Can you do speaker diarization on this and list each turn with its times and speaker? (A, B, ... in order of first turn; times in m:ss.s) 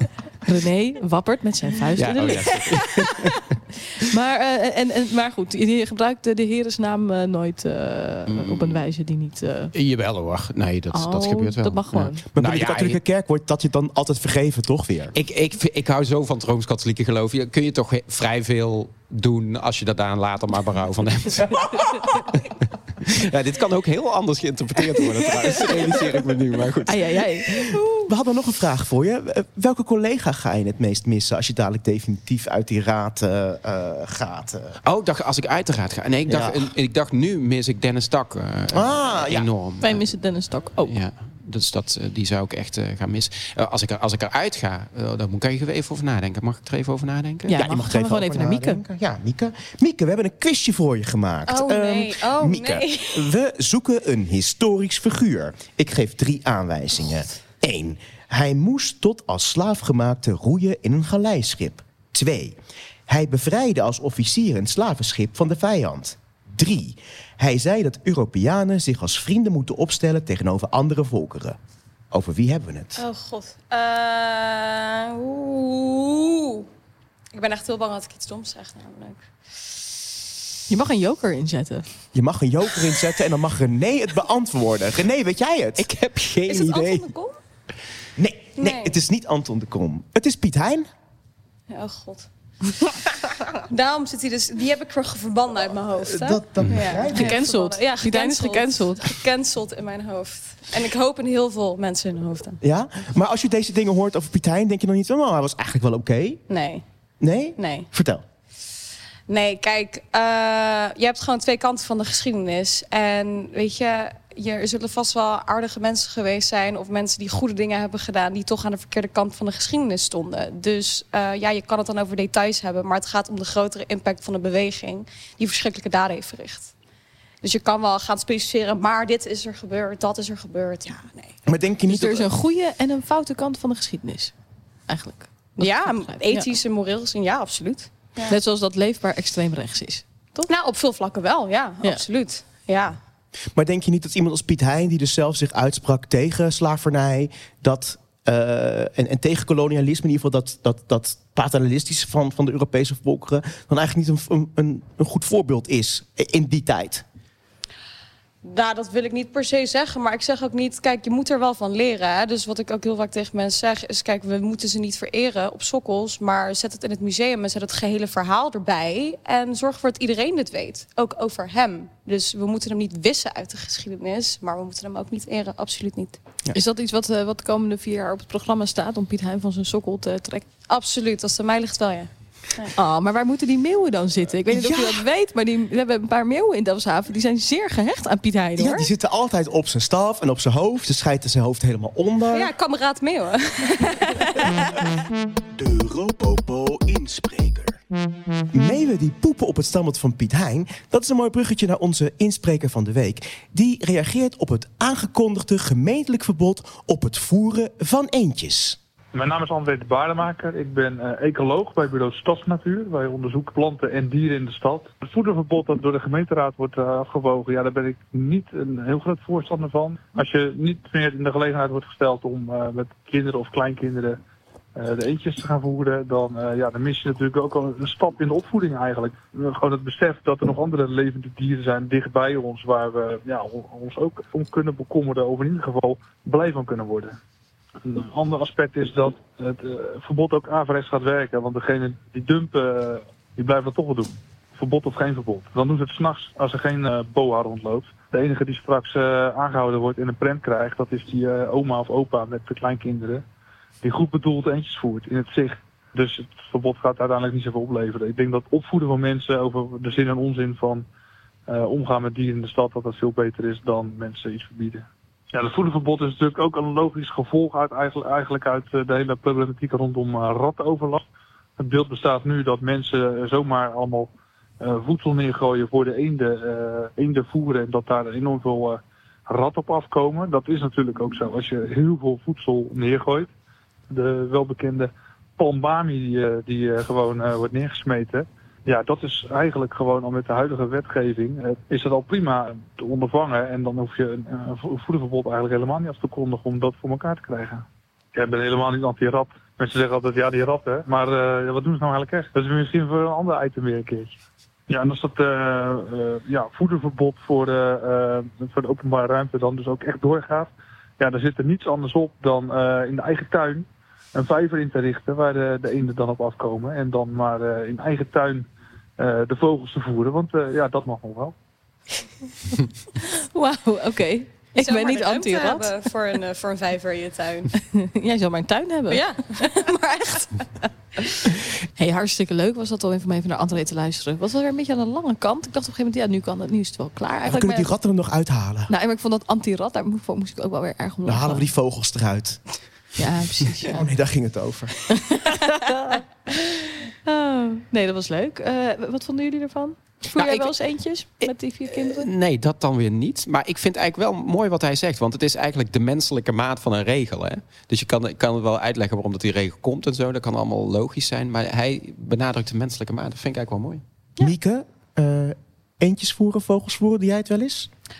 0:00.4-0:03.2 A
0:02.0-0:03.6 B
0:04.0-0:09.7 A
0:08.3-0:08.8 B
0:09.7-0:13.0 B
0:10.9-0:12.2 A
0:12.4-0:15.1 C
0:15.1-0:22.4 B
0:23.0-0:27.2 B
0:26.9-0:28.1 A
0:28.1-0:34.8 C
0:34.8-0:40.1 B
0:36.3-0:36.7 C
0:38.7-0:39.5 C
0:39.8-0:40.9 A
0:40.8-0:47.6 B
0:47.5-0:48.8 A
0:47.6-1:11.6 C
0:51.5-0:53.3 D
1:12.1-1:13.0 C
1:13.0-1:16.7 D
1:17.3-1:19.3 D
1:20.7-1:21.8 A
1:22.1-1:25.9 C
1:25.8-1:27.1 B
1:26.4-1:27.4 D
1:28.2-1:30.9 C
1:28.6-1:28.9 D
1:31.7-1:32.3 D
1:33.5-1:42.6 D
1:36.0-1:37.4 C
1:36.6-1:36.9 B
1:37.1-1:39.1 A
1:42.6-1:46.4 C
1:46.5-1:46.8 D
1:47.2-1:48.2 C
1:47.6-1:47.9 D
1:49.3-2:06.7 D
2:07.4-2:11.4 D
2:11.4-2:12.3 C
2:11.9-2:14.3 A
2:14.9-2:16.5 A
2:15.6-2:18.4 D
2:18.3-2:20.5 A
2:20.5-2:23.0 D
2:23.5-2:37.0 C
2:38.4-2:56.2 D
2:56.5-3:00.5 A
3:00.7-3:02.7 D
3:02.8-3:08.9 A
3:04.5-3:05.0 C
3:08.6-3:12.5 C
3:12.3-3:14.9 D
3:15.5-3:17.8 C
3:18.5-3:28.8 C
3:29.1-3:44.2 E
3:44.8-3:57.2 E
3:57.8-4:13.2 E
4:13.8-4:20.9 E
4:21.5-4:31.0 E
4:31.6-4:43.3 E
4:43.9-5:04.2 E
5:04.7-5:18.4 E
5:19.0-5:21.3 E
5:23.0-5:25.7 A
5:24.6-5:27.5 D
5:27.6-5:29.0 A
5:28.9-5:30.4 D
5:31.8-5:37.7 A
5:37.2-5:38.7 C
5:38.7-5:41.5 A
5:41.0-5:42.4 C
5:43.0-5:43.8 A
5:43.6-5:44.7 C
5:44.9-5:52.1 A
5:50.2-5:50.5 B
5:51.8-6:03.8 B
6:04.2-6:07.7 C